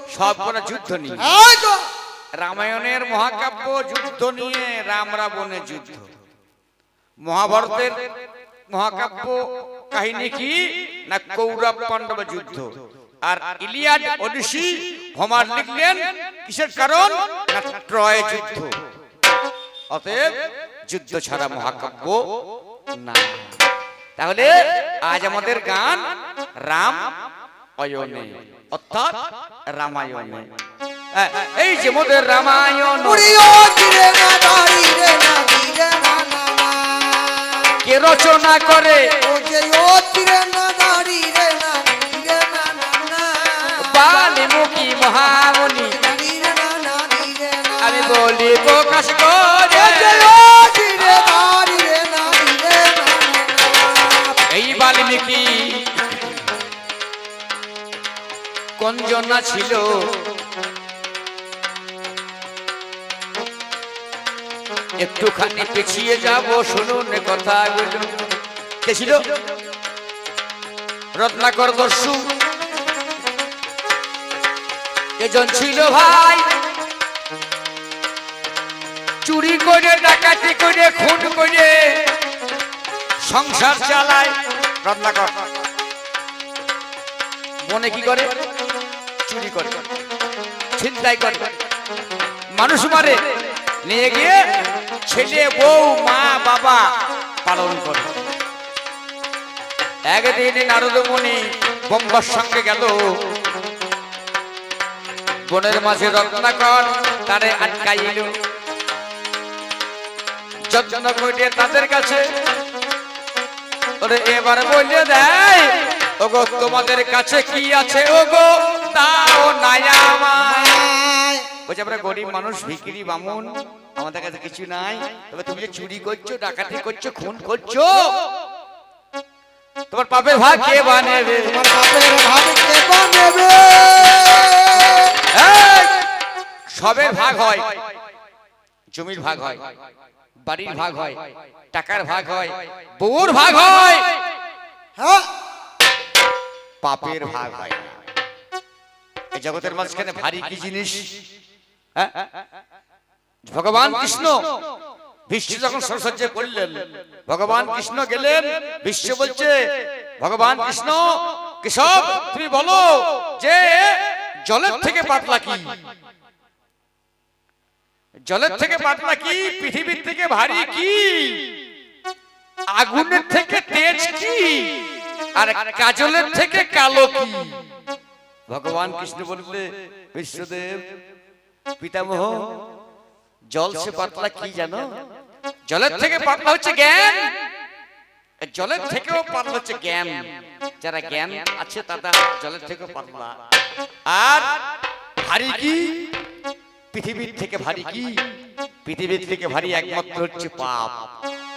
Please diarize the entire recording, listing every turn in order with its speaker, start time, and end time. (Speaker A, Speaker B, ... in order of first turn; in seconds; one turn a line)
Speaker A: 0.1-1.3
Speaker B: 1.2-1.9
Speaker A: 2.4-6.1
Speaker A: 7.3-8.0
Speaker A: 8.7-9.4
Speaker A: 9.9-12.7
Speaker A: 13.2-18.8
Speaker A: 19.9-20.3
Speaker A: 20.9-22.3
Speaker A: 23.0-23.5
Speaker A: 24.2-26.0
Speaker A: 26.6-27.1
Speaker A: 27.8-29.2
Speaker A: 29.7-30.5
Speaker A: 31.1-33.3
Speaker B: 33.0-37.8
Speaker A: 37.8-39.1
Speaker B: 39.2-44.4
Speaker A: 43.8-46.0
Speaker B: 45.8-48.5
Speaker A: 47.8-50.3
Speaker B: 49.7-54.4
Speaker A: 54.5-56.4
Speaker A: 58.8-60.0
Speaker A: 65.0-68.1
Speaker A: 68.8-69.3
Speaker A: 71.2-72.2
Speaker A: 75.2-76.5
Speaker A: 79.2-82.0
Speaker A: 83.2-85.3
Speaker A: 87.7-88.3
Speaker A: 89.3-89.8
Speaker A: 90.8-91.5
Speaker A: 92.6-93.2
Speaker A: 93.9-94.4
Speaker A: 95.1-96.8
Speaker A: 97.5-98.1
Speaker A: 100.1-103.0
Speaker A: 105.5-108.3
Speaker A: 110.7-112.2
Speaker A: 114.0-120.8
Speaker B: 120.4-121.5
Speaker A: 121.7-128.1
Speaker A: 129.9-131.6
Speaker B: 131.5-135.2
Speaker A: 135.3-135.9
Speaker A: 136.8-137.8
Speaker A: 138.9-139.7
Speaker A: 140.5-141.2
Speaker A: 141.7-144.2
Speaker B: 145.0-145.3
Speaker A: 146.8-148.0
Speaker A: 149.3-151.0
Speaker A: 152.0-152.3
Speaker A: 153.5-154.5
Speaker A: 155.3-159.7
Speaker A: 160.2-165.7
Speaker A: 168.3-171.5
Speaker A: 172.8-174.8
Speaker A: 175.4-177.5
Speaker A: 178.5-180.8
Speaker A: 181.8-182.5
Speaker A: 183.5-184.8
Speaker A: 185.7-187.3
Speaker A: 188.4-190.2
Speaker A: 190.8-193.4
Speaker A: 194.1-194.5
Speaker A: 195.2-196.1
Speaker A: 196.9-198.2
Speaker A: 198.8-201.1